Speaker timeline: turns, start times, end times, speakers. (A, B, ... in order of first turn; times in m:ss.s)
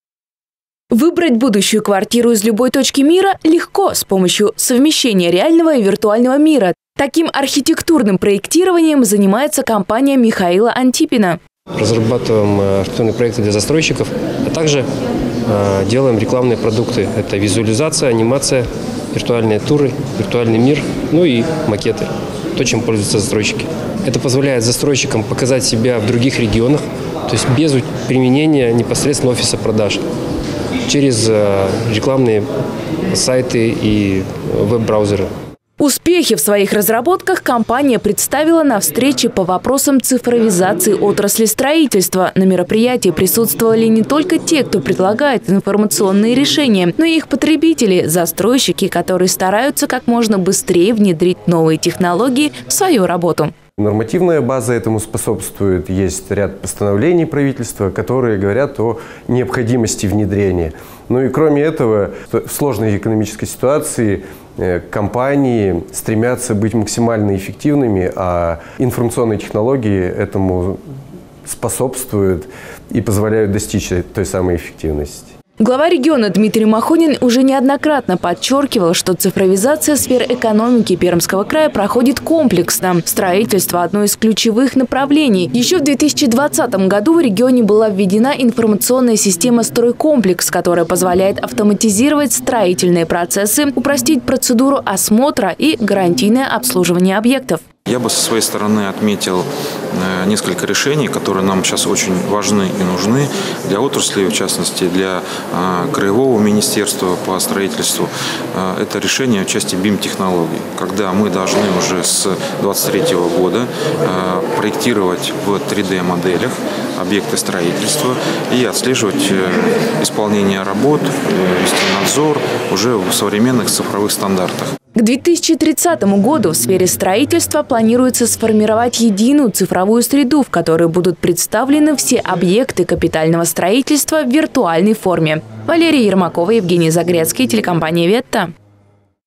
0:00.9-0:11.4 A
0:11.8-0:14.9 B
0:15.5-0:30.0 B
0:30.9-0:32.5 B
0:33.1-0:35.3 B
0:35.8-0:53.5 A
0:53.8-1:10.8 C
1:11.5-1:15.3 C
1:15.6-1:37.7 A
1:37.9-2:04.7 D
2:05.0-2:18.5 A